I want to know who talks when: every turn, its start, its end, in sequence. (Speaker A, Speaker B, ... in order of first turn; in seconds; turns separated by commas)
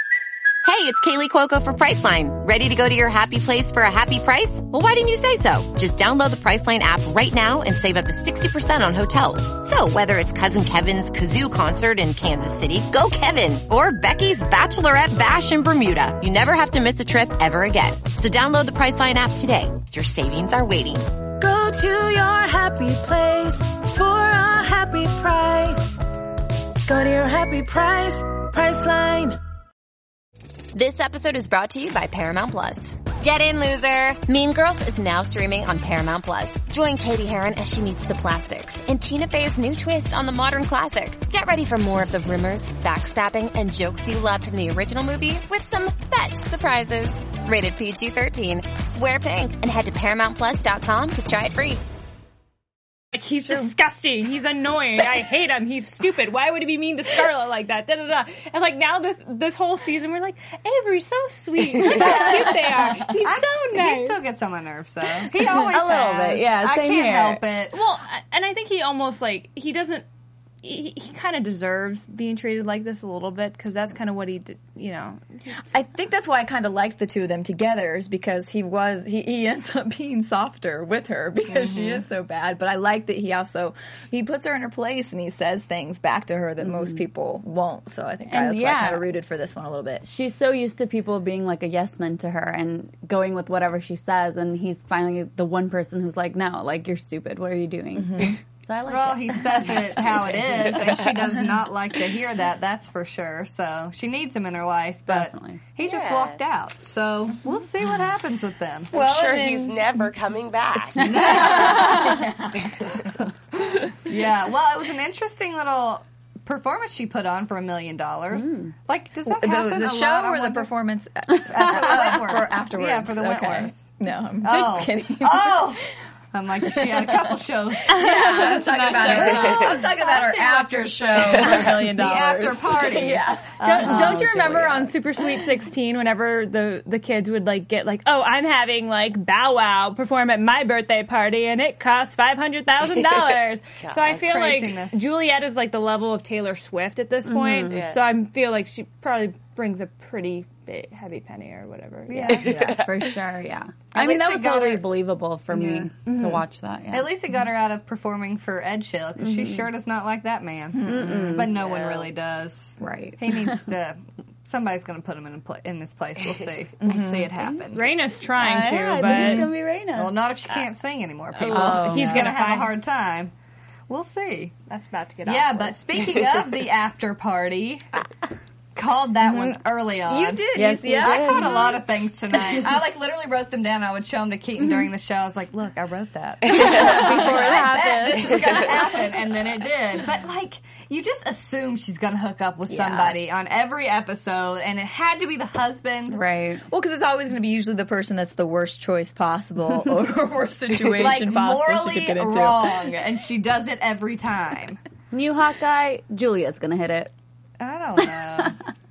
Speaker A: 0.6-21.2, Speaker B: 21.4-26.0, Speaker B: 26.9-29.4, Speaker C: 30.7-51.8, Speaker D: 53.1-64.2, Speaker E: 61.9-62.4, Speaker F: 62.0-63.1, Speaker E: 63.2-67.8, Speaker G: 65.7-67.4, Speaker D: 67.7-70.0, Speaker D: 70.6-75.4, Speaker F: 75.7-90.1, Speaker E: 81.5-82.0, Speaker G: 86.6-87.0, Speaker G: 88.3-89.0, Speaker G: 90.0-100.4, Speaker F: 98.0-98.4, Speaker E: 98.9-108.9, Speaker G: 105.1-105.6, Speaker H: 105.8-106.4, Speaker F: 108.9-110.1, Speaker H: 108.9-111.7, Speaker E: 111.0-112.3, Speaker G: 111.2-112.3, Speaker F: 111.3-112.5, Speaker E: 114.1-120.7, Speaker G: 118.3-118.7, Speaker F: 119.2-125.8, Speaker E: 121.3-123.9, Speaker E: 124.4-134.4, Speaker F: 126.7-133.6, Speaker D: 133.6-152.4, Speaker G: 133.8-134.9, Speaker H: 143.8-144.2, Speaker E: 144.1-145.1, Speaker G: 147.3-147.8, Speaker H: 147.7-148.0, Speaker E: 152.1-152.5, Speaker G: 152.2-157.1, Speaker H: 152.3-153.2, Speaker E: 153.9-154.9, Speaker E: 155.5-155.9, Speaker D: 156.1-156.4, Speaker E: 156.9-168.0, Speaker G: 159.2-159.7, Speaker F: 160.7-161.3, Speaker G: 160.8-161.5, Speaker H: 161.5-162.1, Speaker G: 162.8-163.6, Speaker F: 166.8-167.3, Speaker D: 167.7-169.5, Speaker G: 168.4-170.2, Speaker E: 169.1-173.3, Speaker D: 171.3-172.8, Speaker G: 171.4-172.3, Speaker E: 173.9-174.5, Speaker D: 174.7-175.8, Speaker E: 175.2-177.8, Speaker E: 178.7-196.2, Speaker F: 179.2-181.8, Speaker G: 180.5-181.8, Speaker G: 186.5-188.6, Speaker G: 192.8-193.1, Speaker G: 196.1-196.6, Speaker F: 196.7-202.9, Speaker E: 200.8-204.8, Speaker G: 205.1-207.1, Speaker E: 207.6-208.6